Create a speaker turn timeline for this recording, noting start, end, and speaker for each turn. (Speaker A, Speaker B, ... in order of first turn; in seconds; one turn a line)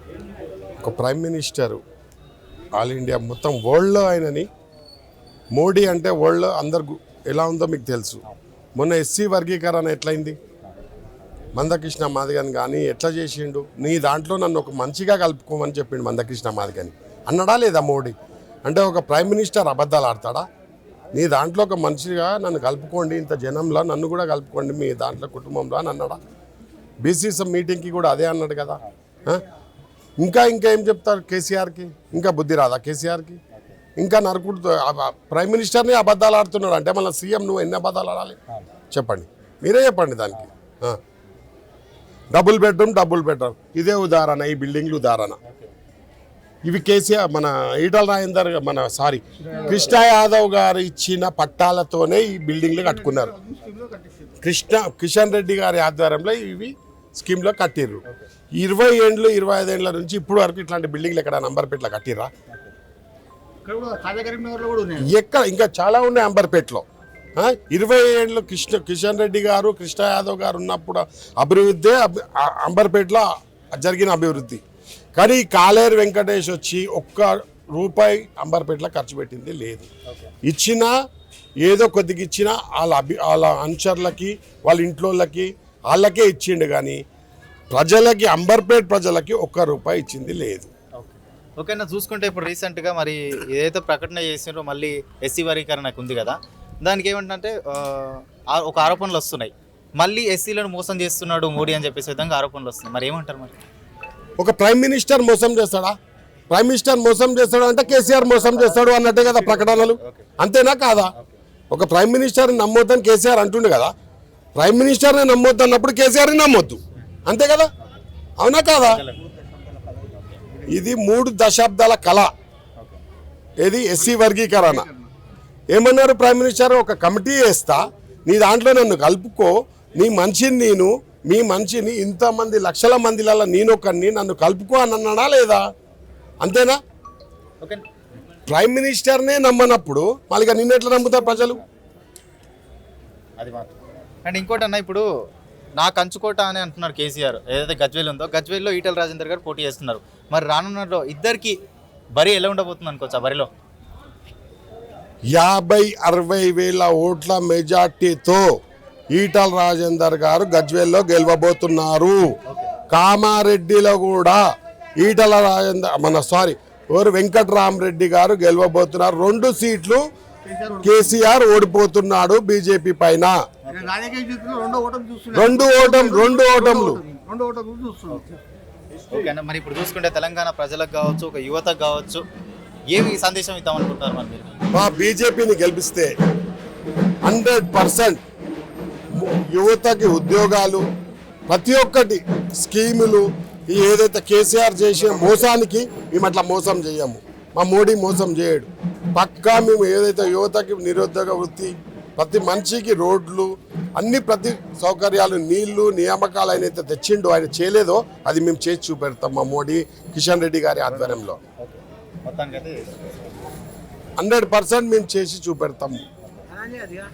Speaker A: 0.8-1.8
Speaker A: 2.7-4.5
Speaker A: 5.5-8.2
Speaker A: 8.8-10.4
Speaker A: 11.6-18.1
Speaker A: 18.6-20.4
Speaker A: 21.1-26.2
Speaker A: 27.0-29.4
Speaker A: 30.2-33.4
Speaker A: 34.0-38.4
Speaker A: 38.9-41.0
Speaker A: 42.3-45.4
Speaker B: 45.5-45.7
Speaker A: 46.6-53.4
Speaker C: 53.0-54.3
Speaker A: 54.4-58.0
Speaker A: 58.6-62.3
Speaker C: 63.6-65.1
Speaker A: 65.0-66.8
Speaker A: 67.3-74.6
Speaker A: 75.1-79.9
Speaker B: 80.1-80.3
Speaker A: 80.4-80.9
Speaker A: 81.6-87.0
Speaker A: 87.7-90.7
Speaker B: 91.0-103.6
Speaker A: 104.4-105.9
Speaker A: 106.5-111.1
Speaker B: 107.9-110.3
Speaker A: 111.7-113.9
Speaker A: 114.5-117.7
Speaker A: 118.4-119.0
Speaker B: 118.8-119.2
Speaker B: 120.1-120.4
Speaker A: 120.7-122.3
Speaker B: 122.8-123.0
Speaker A: 123.6-124.9
Speaker C: 124.6-125.1
Speaker A: 125.7-135.6
Speaker A: 136.4-136.8
Speaker A: 138.5-141.6
Speaker B: 143.4-145.0
Speaker B: 145.8-151.6
Speaker B: 152.2-153.5
Speaker A: 155.3-158.5
Speaker A: 159.1-162.3
Speaker B: 162.5-162.7
Speaker A: 162.9-164.4
Speaker A: 165.0-170.0
Speaker C: 170.5-171.1
Speaker A: 170.8-173.4
Speaker B: 173.6-173.9
Speaker C: 173.7-178.3
Speaker A: 175.3-177.0
Speaker B: 179.1-182.2
Speaker B: 182.9-184.6
Speaker A: 184.7-186.1
Speaker A: 187.2-188.2
Speaker A: 189.1-190.8
Speaker A: 191.5-211.4
Speaker B: 210.9-212.8
Speaker A: 214.2-216.0